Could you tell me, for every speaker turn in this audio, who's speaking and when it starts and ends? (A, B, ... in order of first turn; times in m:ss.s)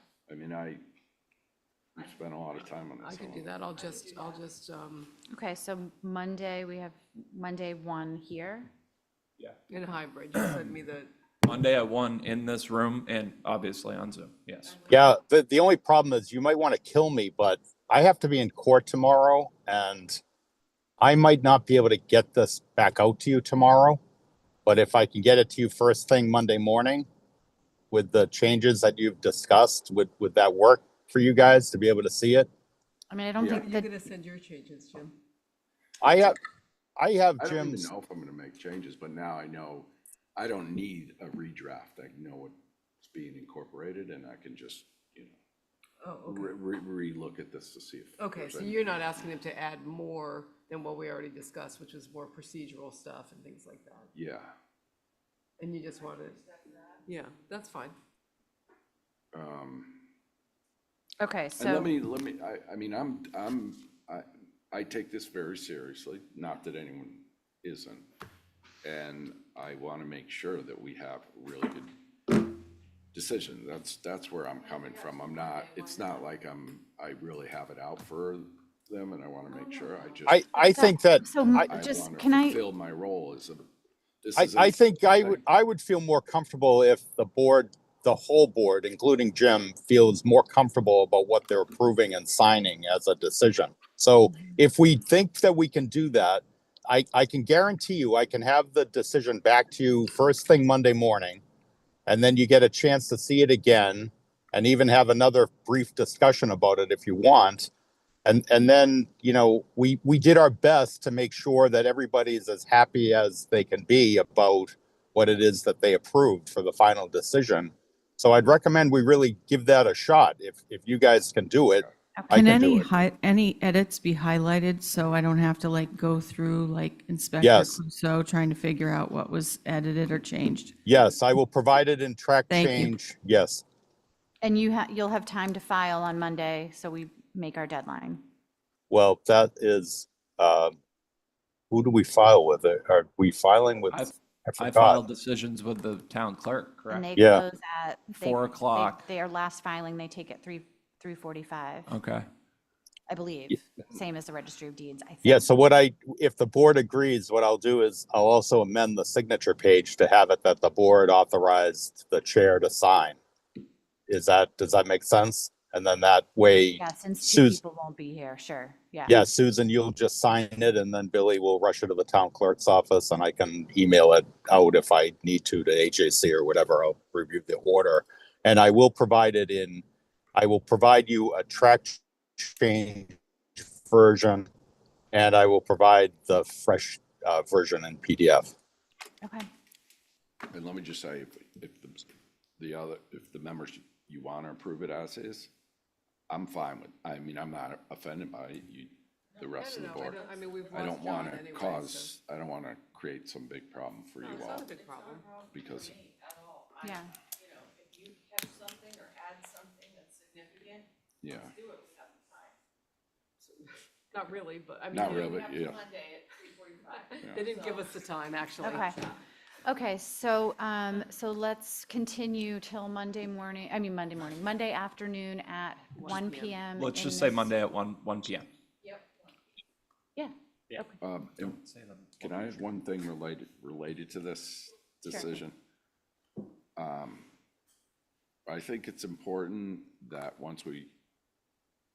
0:00.3-0:00.8 A
0:01.9-0:03.5 A
0:03.0-0:05.1 B
0:05.3-0:08.7 C
0:09.7-0:11.1 B
0:10.3-0:10.7 D
0:11.4-0:14.8 D
0:14.6-0:14.9 B
0:14.9-0:20.2 E
0:21.0-0:24.0 E
0:24.6-0:27.1 E
0:27.9-0:32.5 E
0:33.1-0:33.9 C
0:33.4-0:33.6 A
0:33.5-0:35.1 B
0:36.0-0:36.4 E
0:36.0-0:36.4 A
0:37.0-0:37.9 E
0:37.4-0:45.4 A
0:46.0-0:46.6 B
0:46.3-0:49.0 A
0:48.2-0:54.1 B
0:54.1-0:54.5 A
0:55.6-0:58.0 B
0:59.3-1:00.0 A
1:01.2-1:01.9 C
1:01.6-1:08.1 A
1:08.8-1:11.9 A
1:13.1-1:20.4 A
1:20.3-1:21.7 E
1:20.6-1:22.6 C
1:21.7-1:23.7 A
1:24.2-1:25.4 A
1:24.4-1:41.4 E
1:42.1-1:47.7 E
1:48.2-2:02.9 E
2:02.3-2:10.7 F
2:07.4-2:07.8 E
2:10.8-2:13.6 E
2:12.5-2:12.9 F
2:14.4-2:18.2 C
2:18.9-2:20.8 E
2:21.7-2:25.0 E
2:23.9-2:27.1 D
2:26.9-2:31.9 C
2:27.1-2:27.4 E
2:28.2-2:29.0 D
2:31.9-2:32.2 D
2:33.1-2:35.5 C
2:35.2-2:43.2 E
2:44.1-2:47.6 E
2:46.8-2:49.2 C
2:49.1-2:59.8 E
3:00.3-3:04.5 E
3:05.1-3:08.5 E
3:09.2-3:09.5 C
3:10.5-3:12.0 A
3:12.6-3:15.5 A
3:16.3-3:24.7 A
3:19.6-3:22.1 B
3:24.2-3:25.3 B
3:25.2-3:26.8 G
3:25.5-3:26.0 A
3:26.8-3:27.1 C
3:27.4-3:30.8 G
3:31.2-3:31.6 A
3:31.6-3:32.4 G
3:33.4-3:35.4 B
3:34.9-3:35.9 A
3:35.9-3:37.0 G
3:37.1-3:39.2 B
3:38.6-3:38.9 C
3:39.6-3:47.5 C
3:46.0-3:46.6 B
3:46.8-3:48.5 D
3:50.2-3:51.0 C
3:50.7-3:52.6 D
3:51.0-3:51.6 A
3:52.2-3:55.5 A
3:56.8-3:57.3 A
3:58.4-4:00.9 A